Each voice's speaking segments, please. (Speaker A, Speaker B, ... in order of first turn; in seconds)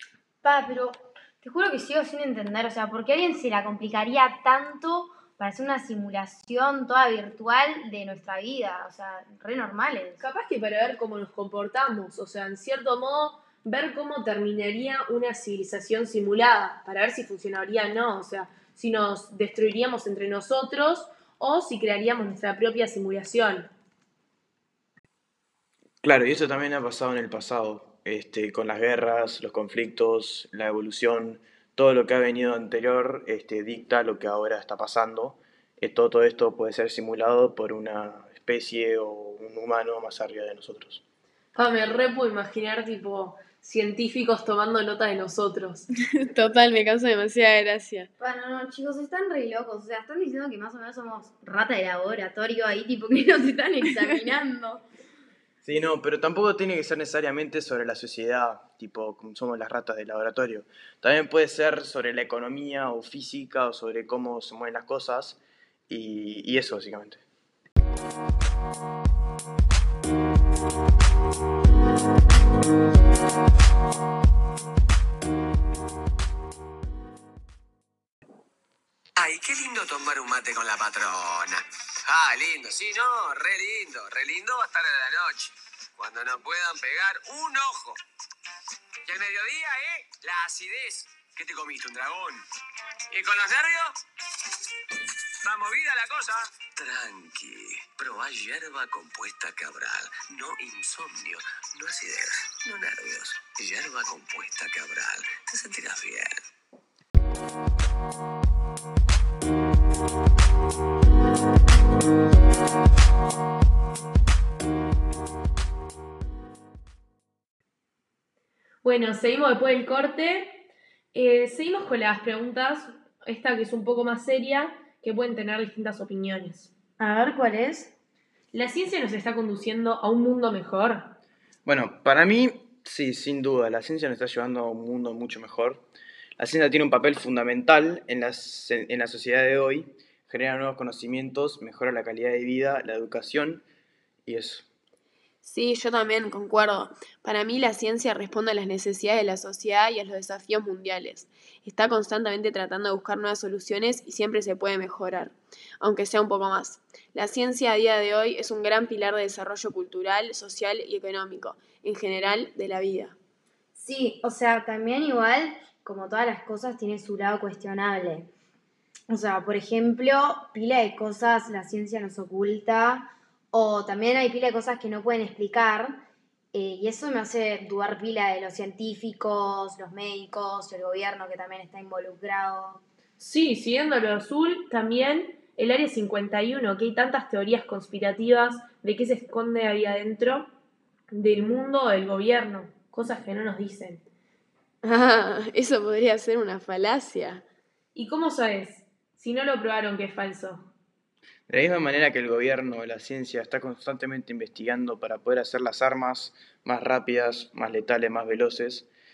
Speaker A: 0.4-10.2, 48.2-54.9, 127.0-127.9, 163.8-168.3, 169.1-175.9, 176.5-182.8
Speaker B: 10.2-23.7, 41.5-45.9, 118.8-126.7, 128.5-131.2, 183.2-190.5, 191.1-194.1, 197.9-200.7
Speaker C: 26.0-41.0, 55.6-67.2, 131.7-135.8, 136.4-143.6, 144.3-144.7, 201.5-208.9
Speaker D: 46.2-48.1, 145.4-163.2, 194.8-197.4
Speaker E: 79.2-88.0, 89.0-92.4, 93.1-94.0, 95.4-106.3